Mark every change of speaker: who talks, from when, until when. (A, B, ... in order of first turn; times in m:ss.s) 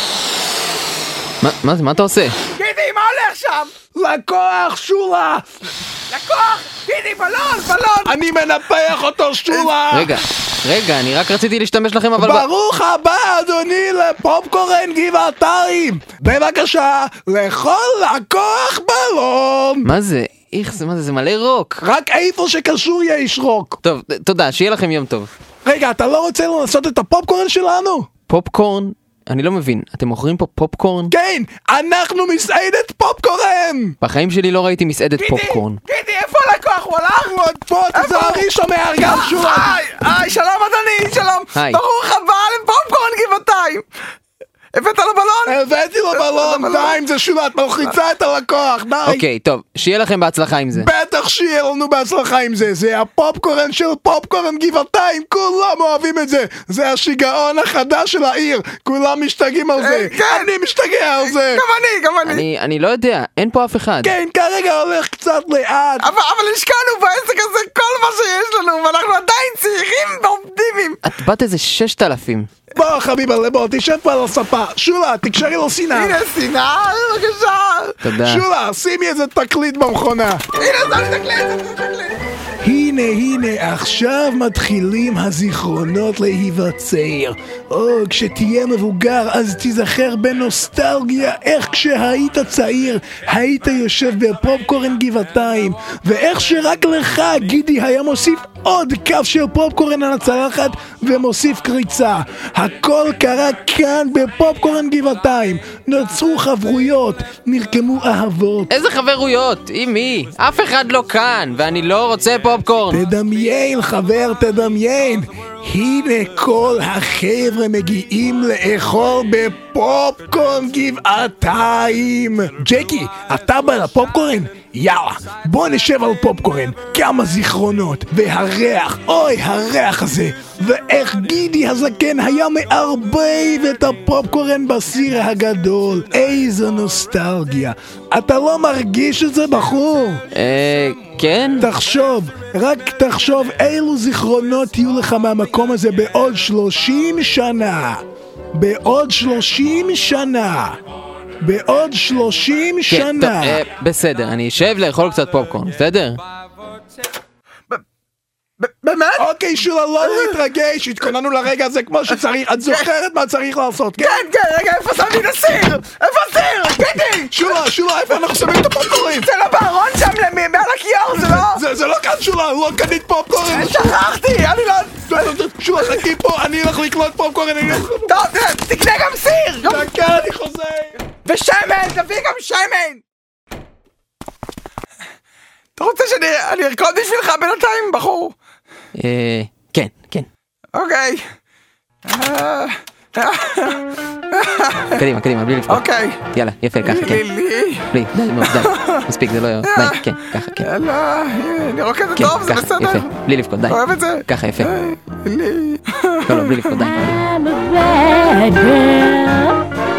0:01.4-0:02.4 A
0:02.5-0:03.7 B
0:03.9-0:05.4 C
0:06.1-0:08.2 B
0:08.0-0:10.2 C
0:09.9-0:12.5 A
0:12.2-0:19.9 C
0:19.8-0:21.8 A
0:21.8-0:23.8 C
0:23.8-0:25.3 A
0:25.6-0:28.1 C
0:28.3-0:31.1 A
0:31.1-0:34.0 C
0:34.0-0:35.8 A
0:35.2-0:38.5 B
0:37.4-0:39.8 C
0:39.0-0:43.8 B
0:41.6-0:41.8 A
0:44.7-0:45.6 B
0:45.5-0:49.2 C
0:46.1-0:47.0 B
0:49.0-0:50.9 A
0:50.7-1:01.6 C
0:59.8-1:00.5 B
1:01.2-1:02.5 B
1:02.2-1:04.1 A
1:04.0-1:06.1 C
1:06.0-1:11.0 B
1:11.0-1:12.5 A
1:12.7-1:16.2 C
1:15.9-1:18.0 B
1:18.0-1:18.4 A
1:18.2-1:20.5 C
1:20.5-1:22.2 B
1:22.6-1:48.7 C
1:48.7-1:53.0 A
1:52.9-2:20.2 C
2:20.3-2:21.7 A
2:21.6-2:28.0 C
2:28.5-2:30.8 C
2:31.4-2:33.6 C
2:32.9-2:36.2 A
2:38.6-2:39.3 B
2:39.2-2:44.2 C
2:40.0-2:40.4 B
2:44.0-2:51.6 B
2:47.3-2:49.3 C
2:51.1-2:54.0 C
2:53.4-2:56.1 B
2:55.1-2:58.3 C
2:58.1-3:00.1 B
2:59.6-3:01.0 C
3:01.2-3:03.0 B
3:05.8-3:08.3 B
3:08.9-3:10.3 A
3:10.7-3:11.2 B
3:12.0-3:15.0 B
3:14.9-3:17.2 A
3:15.7-3:16.2 B
3:16.8-3:19.1 B
3:17.9-3:20.7 A
3:19.6-3:23.1 B
3:22.2-3:24.7 A
3:23.7-3:26.8 B
3:26.2-3:27.3 A
3:27.3-3:29.6 D